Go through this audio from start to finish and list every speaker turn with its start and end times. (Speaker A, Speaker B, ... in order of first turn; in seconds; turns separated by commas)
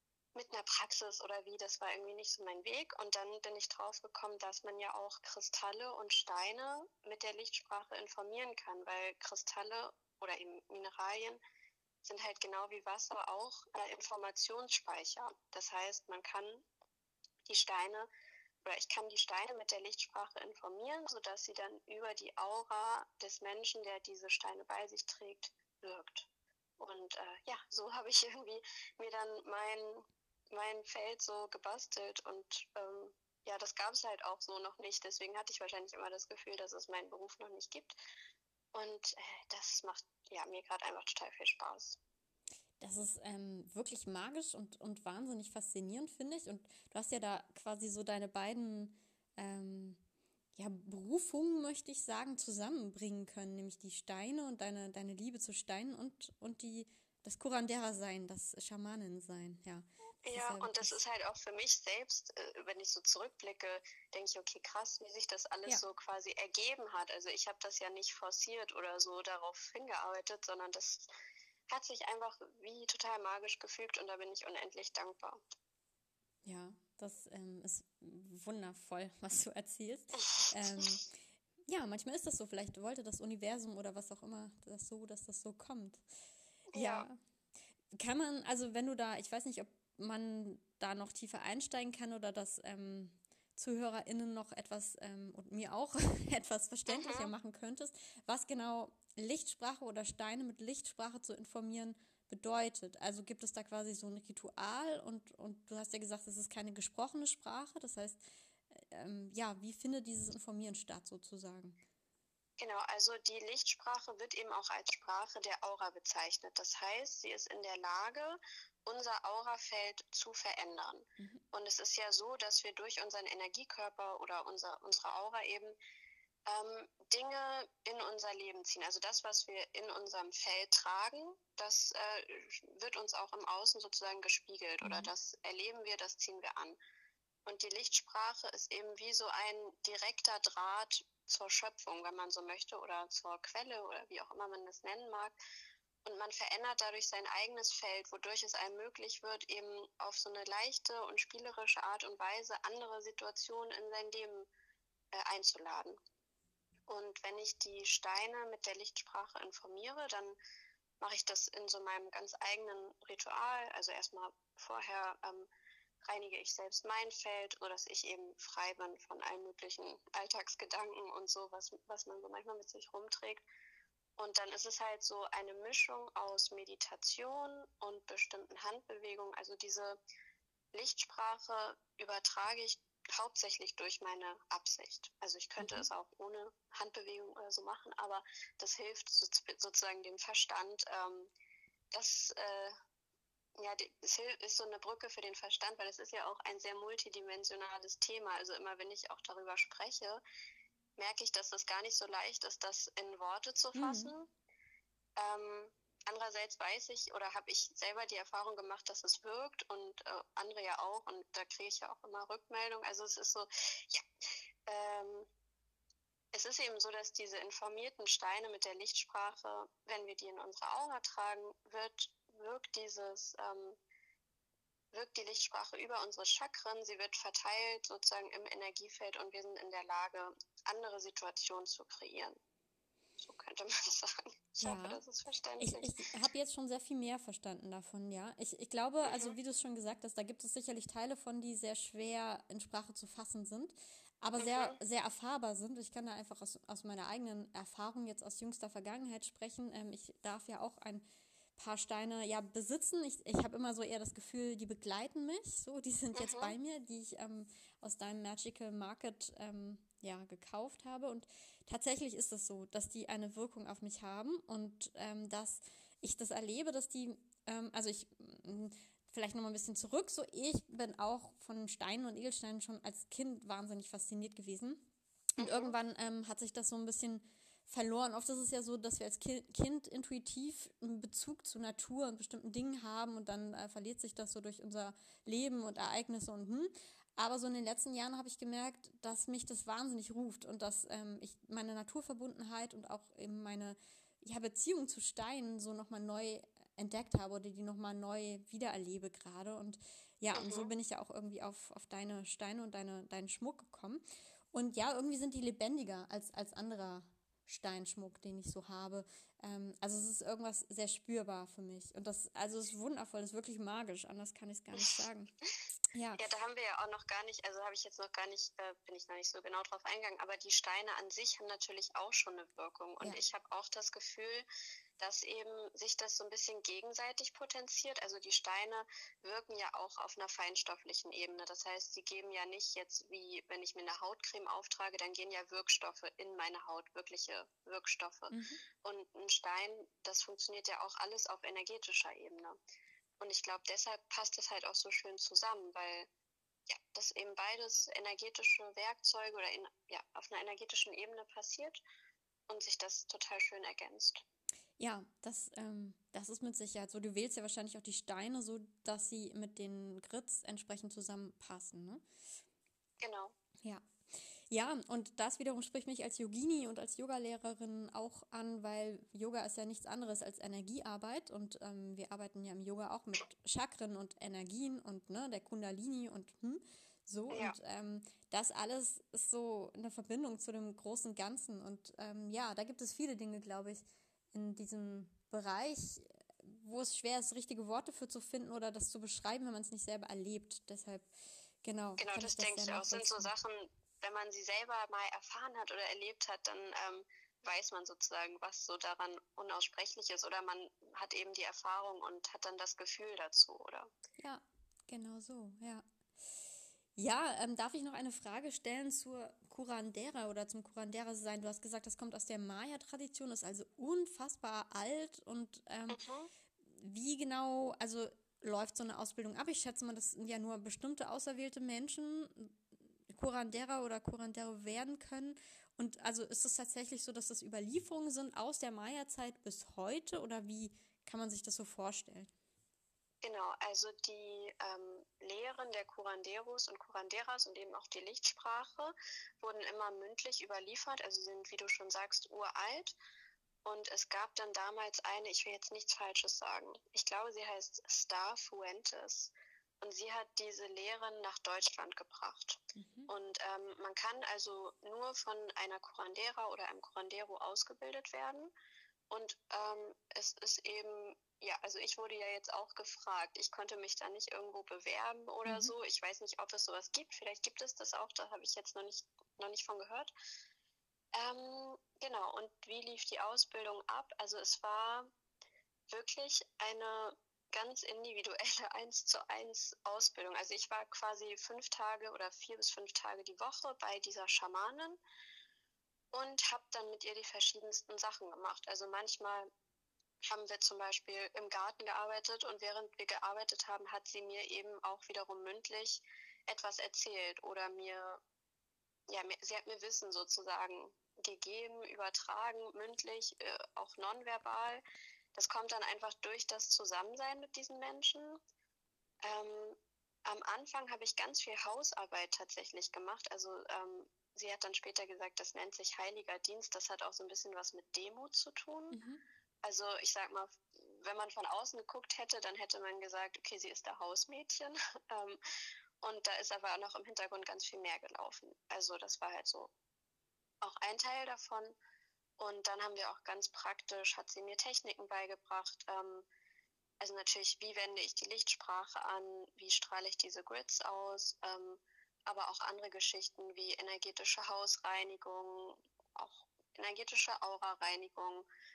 Speaker A: 0.3-11.4, Speaker A: 12.0-16.6, Speaker A: 17.5-18.1, Speaker A: 18.6-26.3, Speaker A: 26.8-38.0, Speaker A: 38.7-42.0, Speaker B: 42.8-50.0, Speaker B: 50.5-61.0, Speaker A: 60.2-71.1, Speaker A: 71.7-75.4, Speaker B: 76.4-86.0, Speaker A: 80.4-80.9, Speaker A: 86.7-87.1, Speaker B: 86.7-87.2, Speaker B: 87.9-111.8, Speaker A: 96.9-97.3, Speaker A: 112.6-125.8, Speaker A: 126.5-136.8, Speaker B: 134.8-135.1, Speaker A: 137.4-145.4, Speaker A: 146.0-154.5, Speaker A: 155.1-156.0, Speaker A: 156.9-160.4, Speaker A: 161.0-165.5, Speaker A: 166.0-173.4, Speaker A: 174.2-180.0, Speaker A: 180.7-191.3, Speaker B: 185.6-185.9, Speaker A: 191.9-192.7, Speaker A: 193.6-200.2, Speaker A: 201.0-204.3, Speaker B: 203.8-204.1, Speaker A: 205.2-214.0, Speaker A: 214.7-215.3, Speaker A: 216.3-223.8, Speaker A: 224.9-232.4, Speaker A: 233.2-235.9, Speaker B: 234.6-235.0, Speaker B: 235.6-251.0, Speaker A: 239.0-239.3, Speaker A: 244.4-244.8, Speaker B: 251.6-274.9, Speaker A: 256.1-256.5, Speaker B: 275.4-315.3, Speaker A: 275.4-275.8, Speaker A: 300.3-300.7, Speaker A: 314.8-315.0, Speaker B: 315.9-316.2, Speaker A: 316.2-324.4, Speaker A: 325.0-342.6, Speaker B: 338.3-338.6, Speaker A: 343.2-346.1, Speaker A: 346.7-351.8, Speaker A: 352.5-354.2, Speaker B: 354.8-362.0, Speaker A: 363.0-363.4, Speaker B: 364.5-391.1, Speaker A: 377.3-377.6, Speaker B: 391.6-393.3, Speaker A: 392.0-403.9, Speaker B: 404.2-405.9, Speaker B: 406.9-416.0, Speaker A: 415.9-416.3, Speaker B: 416.6-432.3, Speaker A: 433.2-442.9, Speaker A: 443.6-458.5, Speaker B: 452.8-453.1, Speaker A: 459.1-470.1, Speaker B: 465.4-465.7, Speaker A: 471.1-475.1, Speaker A: 475.9-485.0, Speaker A: 486.1-489.5, Speaker A: 490.2-498.2, Speaker A: 499.1-504.8, Speaker A: 505.4-508.4, Speaker A: 509.2-519.0, Speaker B: 518.9-519.2, Speaker A: 519.6-525.4, Speaker A: 526.0-529.7, Speaker A: 530.6-531.8, Speaker A: 532.4-536.2, Speaker A: 537.0-548.5